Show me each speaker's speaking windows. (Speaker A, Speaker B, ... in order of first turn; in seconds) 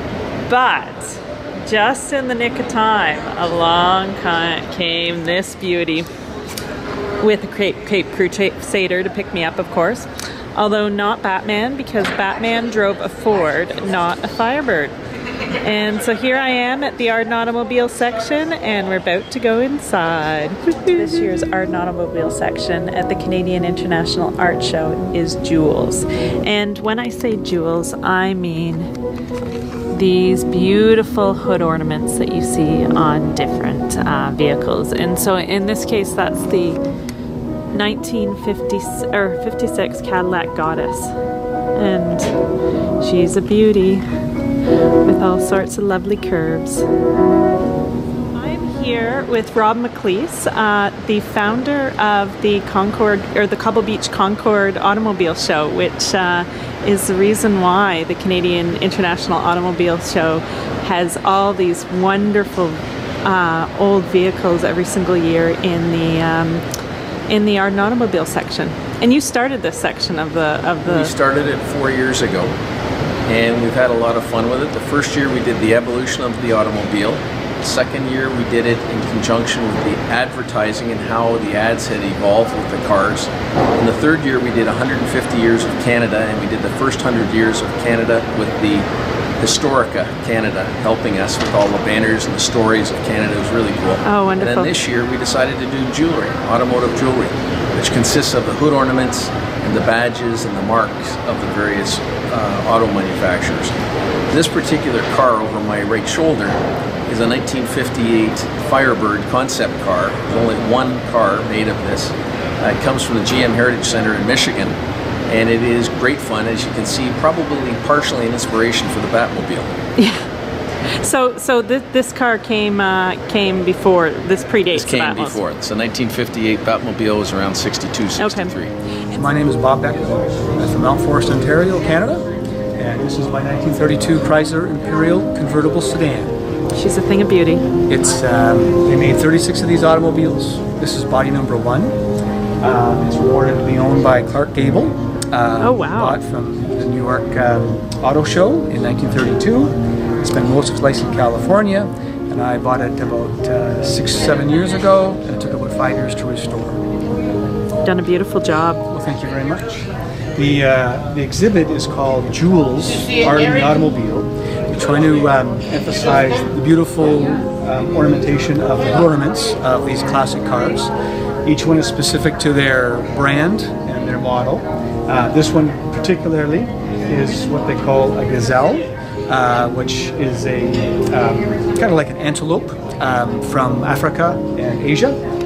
Speaker A: 0.5-6.1, 7.2-14.9, 15.6-28.9, 29.9-36.8, 37.7-41.1, 41.8-42.3, 43.0-44.0, 45.0-46.9, 48.3-66.7, 67.3-71.1, 94.0-94.7, 120.0-120.2, 120.9-125.4, 128.2-128.5, 136.8-137.7, 145.6-146.2, 157.8-158.8
Speaker B: 70.8-72.5, 73.3-88.9, 89.4-103.7, 104.3-114.8, 115.3-119.8, 124.7-128.7
Speaker C: 129.1-136.3, 137.9-142.0, 142.6-156.8, 158.9-170.9, 171.4-185.2